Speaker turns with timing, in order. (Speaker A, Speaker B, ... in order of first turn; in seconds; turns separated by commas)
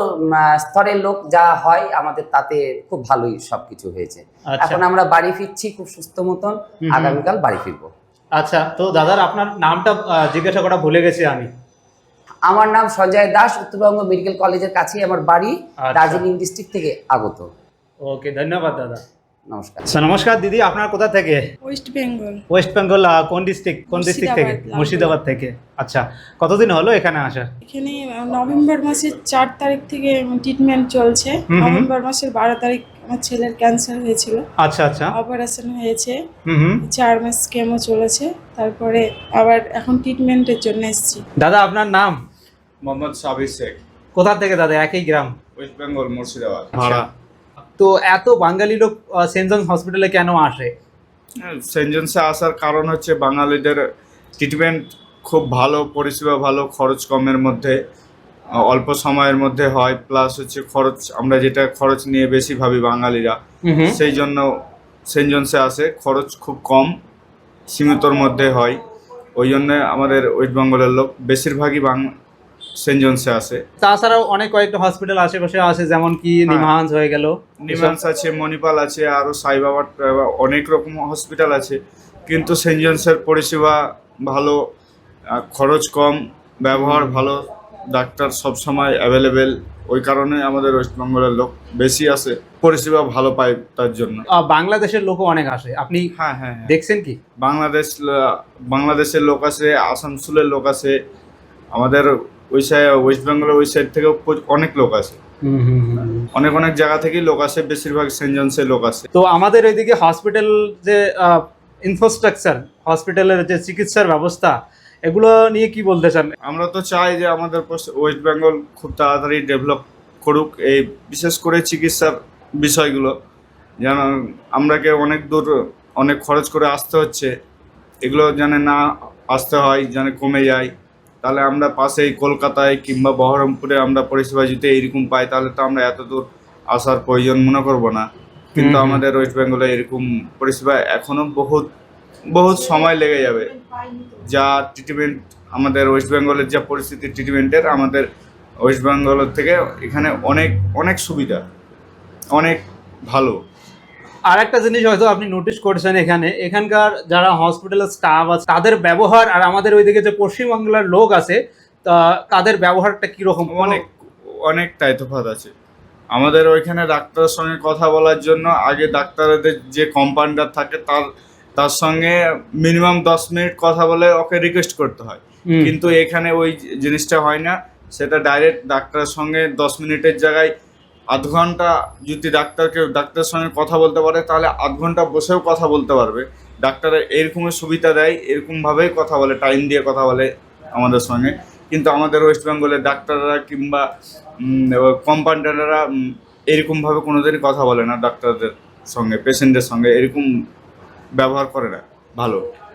Speaker A: 0.7-7.9, Speaker B: 4.5-4.8, Speaker B: 6.8-7.2, Speaker B: 8.3-11.5, Speaker A: 12.5-17.5, Speaker B: 15.8-16.2, Speaker B: 18.0-19.0, Speaker A: 19.5-19.8, Speaker B: 19.9-21.4, Speaker C: 21.6-22.4, Speaker B: 22.5-27.5, Speaker C: 23.9-25.1, Speaker C: 27.6-34.4, Speaker B: 31.5-31.9, Speaker B: 34.6-35.2, Speaker C: 35.1-36.2, Speaker B: 36.5-36.8, Speaker C: 36.8-41.2, Speaker B: 41.4-42.2, Speaker D: 42.8-43.8, Speaker B: 44.1-45.4, Speaker D: 45.6-47.1, Speaker B: 46.8-47.1, Speaker B: 47.8-50.7, Speaker D: 51.4-53.8, Speaker D: 54.4-57.8, Speaker D: 58.7-63.4, Speaker B: 63.6-64.0, Speaker D: 63.9-64.4, Speaker D: 65.1-66.9, Speaker D: 67.7-68.8, Speaker D: 69.4-72.0, Speaker D: 72.8-73.6, Speaker B: 73.8-78.0, Speaker D: 77.6-84.6, Speaker D: 85.5-87.4, Speaker B: 86.8-87.2, Speaker D: 87.9-94.2, Speaker B: 94.3-96.1, Speaker D: 96.2-96.7, Speaker B: 96.7-97.2, Speaker D: 97.4-101.0, Speaker D: 101.7-105.2, Speaker B: 105.4-106.3, Speaker D: 106.3-109.1, Speaker B: 109.1-116.3, Speaker D: 116.5-123.1, Speaker D: 123.8-127.3, Speaker D: 128.0-128.8, Speaker D: 129.3-130.7, Speaker D: 131.2-141.7, Speaker B: 138.6-139.0, Speaker D: 142.3-143.5, Speaker D: 144.3-148.1, Speaker D: 148.6-151.4, Speaker D: 152.3-153.4, Speaker B: 154.3-163.8, Speaker D: 163.5-163.9, Speaker D: 164.5-165.5, Speaker D: 166.1-171.1, Speaker D: 171.6-180.5, Speaker D: 181.1-193.8, Speaker D: 194.4-195.8, Speaker D: 196.5-200.3, Speaker D: 201.2-202.4